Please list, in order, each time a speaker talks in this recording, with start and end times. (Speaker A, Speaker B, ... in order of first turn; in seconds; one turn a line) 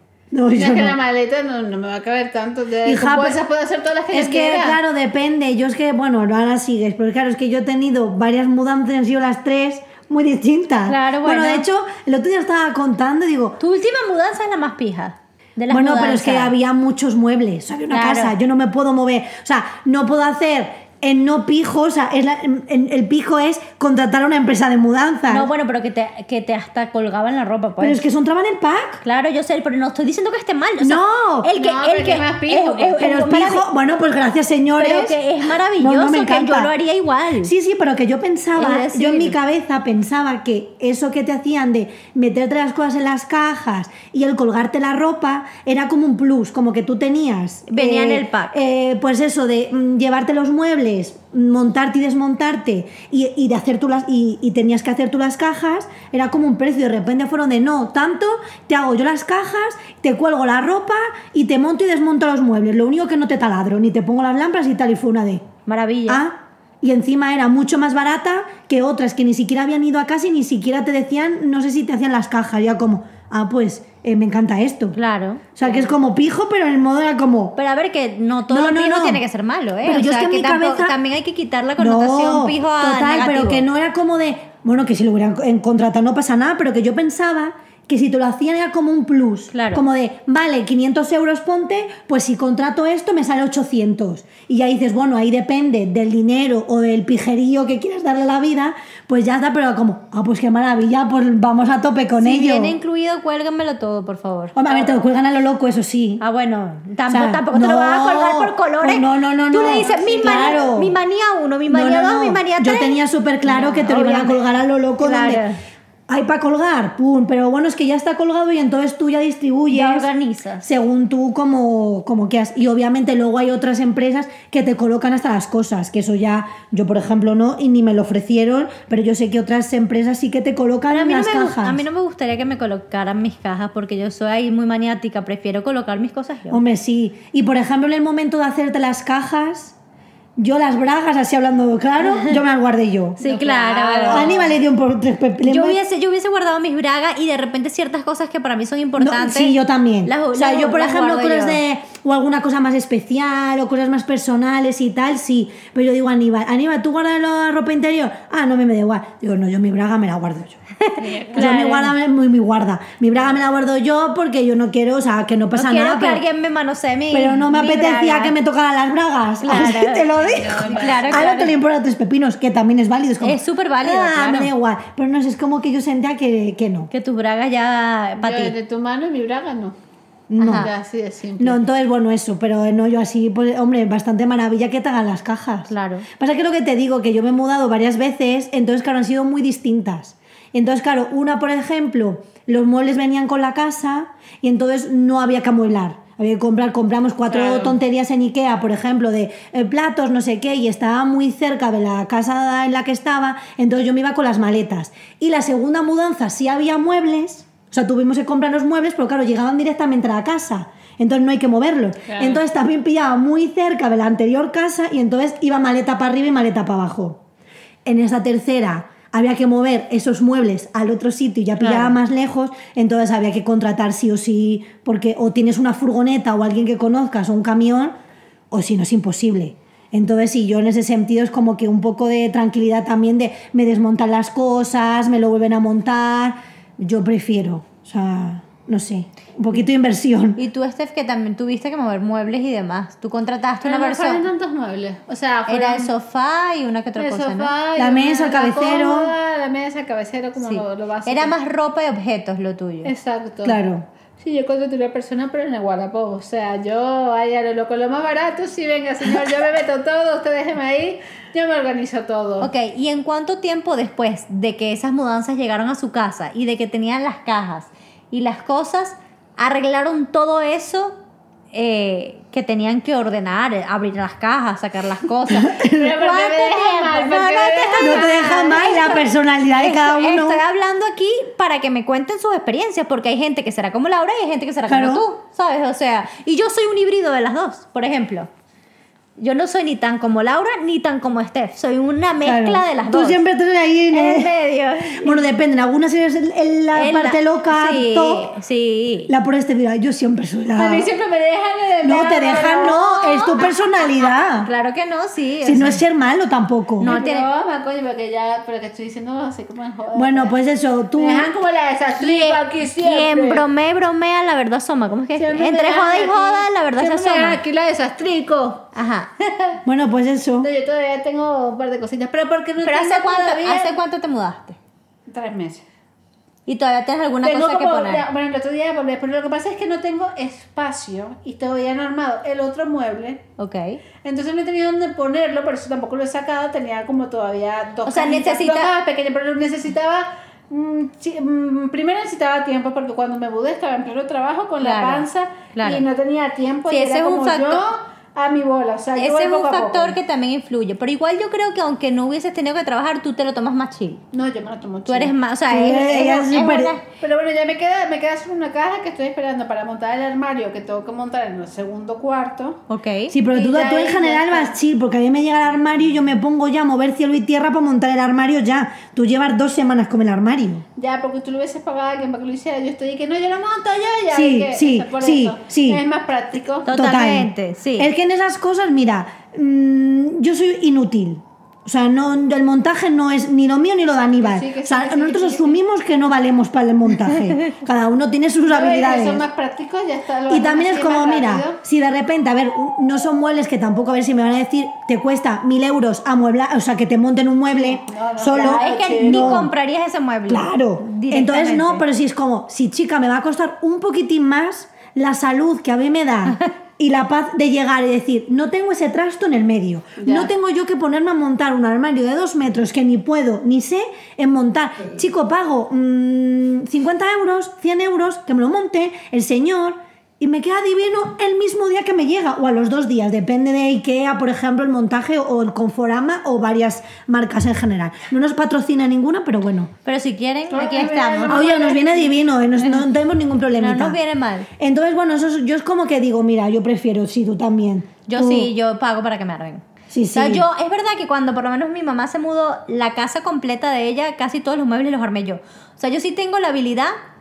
Speaker A: 0.3-1.0
Speaker B: 0.5-4.8
Speaker A: 2.8-3.4
Speaker A: 4.1-13.6
Speaker C: 10.9-11.7
Speaker C: 13.6-16.5
Speaker A: 15.7-25.5
Speaker C: 17.9-18.3
Speaker C: 25.3-28.0
Speaker A: 27.8-29.0
Speaker C: 29.0-33.6
Speaker A: 30.8-31.5
Speaker B: 31.6-33.0
Speaker A: 32.9-35.2
Speaker C: 34.8-37.5
Speaker A: 35.8-36.7
Speaker A: 37.4-65.4
Speaker C: 38.5-39.4
Speaker C: 47.7-48.5
Speaker C: 65.7-66.2
Speaker A: 66.1-75.0
Speaker C: 74.9-75.9
Speaker A: 75.5-77.6
Speaker C: 77.5-83.7
Speaker A: 78.5-79.2
Speaker A: 79.8-81.0
Speaker A: 81.8-102.8
Speaker C: 89.5-89.8
Speaker C: 102.2-104.9
Speaker A: 104.5-106.2
Speaker C: 106.2-114.5
Speaker A: 107.1-110.9
Speaker B: 109.5-110.6
Speaker A: 111.7-115.4
Speaker C: 115.0-115.5
Speaker A: 116.1-120.1
Speaker C: 119.7-120.7
Speaker A: 120.6-131.8
Speaker C: 130.9-136.6
Speaker A: 136.5-139.8
Speaker A: 140.4-143.2
Speaker C: 142.0-142.4
Speaker C: 143.2-144.3
Speaker B: 143.2-144.5
Speaker A: 144.1-145.8
Speaker C: 145.4-151.6
Speaker A: 149.0-160.6
Speaker C: 160.8-161.9
Speaker B: 161.0-161.5
Speaker A: 161.3-166.2
Speaker C: 165.6-168.3
Speaker A: 167.1-176.9
Speaker C: 169.4-170.1
Speaker B: 170.1-171.3
Speaker C: 170.6-171.6
Speaker C: 173.2-174.5
Speaker C: 176.9-178.5
Speaker B: 178.2-179.7
Speaker A: 180.3-180.7
Speaker C: 180.4-180.7
Speaker B: 180.5-181.6
Speaker A: 181.4-217.2
Speaker C: 185.7-186.1
Speaker B: 197.3-197.8
Speaker B: 212.1-212.4
Speaker A: 217.8-227.9
Speaker C: 221.6-222.0
Speaker A: 228.5-240.4
Speaker C: 240.4-244.2
Speaker B: 243.6-245.9
Speaker C: 245.5-247.5
Speaker B: 247.0-251.3
Speaker A: 247.8-249.1
Speaker C: 250.4-252.9
Speaker B: 252.8-253.6
Speaker A: 253.4-253.8
Speaker B: 254.2-262.5
Speaker C: 262.4-270.9
Speaker C: 271.5-288.3
Speaker A: 275.3-275.8
Speaker B: 275.6-278.9
Speaker A: 277.8-280.4
Speaker A: 284.7-285.0
Speaker C: 289.2-293.2
Speaker A: 292.2-294.3
Speaker C: 293.9-295.2
Speaker A: 294.9-298.3
Speaker C: 296.7-299.1
Speaker A: 299.1-300.9
Speaker B: 300.6-302.8
Speaker A: 301.8-304.5
Speaker C: 302.7-303.4
Speaker B: 303.4-303.9
Speaker C: 304.4-305.8
Speaker A: 305.4-306.9
Speaker C: 306.8-307.2
Speaker B: 306.8-310.3
Speaker A: 309.9-311.3
Speaker B: 311.0-313.4
Speaker C: 312.0-317.4
Speaker B: 315.1-318.7
Speaker C: 318.7-319.1
Speaker B: 319.3-319.6
Speaker A: 319.6-320.5
Speaker B: 320.4-323.8
Speaker C: 322.6-324.6
Speaker B: 325.1-325.6
Speaker C: 326.5-328.1
Speaker B: 327.2-333.2
Speaker C: 333.4-333.8
Speaker B: 334.0-350.0
Speaker C: 337.9-338.7
Speaker C: 344.6-345.8
Speaker C: 346.7-347.6
Speaker C: 348.9-354.0
Speaker B: 354.1-355.1
Speaker C: 354.9-356.8
Speaker A: 355.5-356.7
Speaker B: 357.0-362.6
Speaker C: 362.7-363.1
Speaker A: 363.1-370.6
Speaker B: 363.3-364.6
Speaker B: 370.8-376.7
Speaker A: 374.1-375.8
Speaker C: 376.6-377.9
Speaker A: 376.7-389.2
Speaker B: 384.2-385.6
Speaker B: 388.5-391.6
Speaker A: 390.3-399.5
Speaker B: 397.6-399.3
Speaker C: 398.3-401.9
Speaker A: 400.3-429.7
Speaker B: 410.0-410.3
Speaker C: 429.8-431.6
Speaker B: 430.5-432.1
Speaker A: 431.3-434.0
Speaker C: 432.6-432.9
Speaker C: 433.6-434.5
Speaker A: 434.6-438.5
Speaker C: 438.1-446.9
Speaker A: 439.9-440.4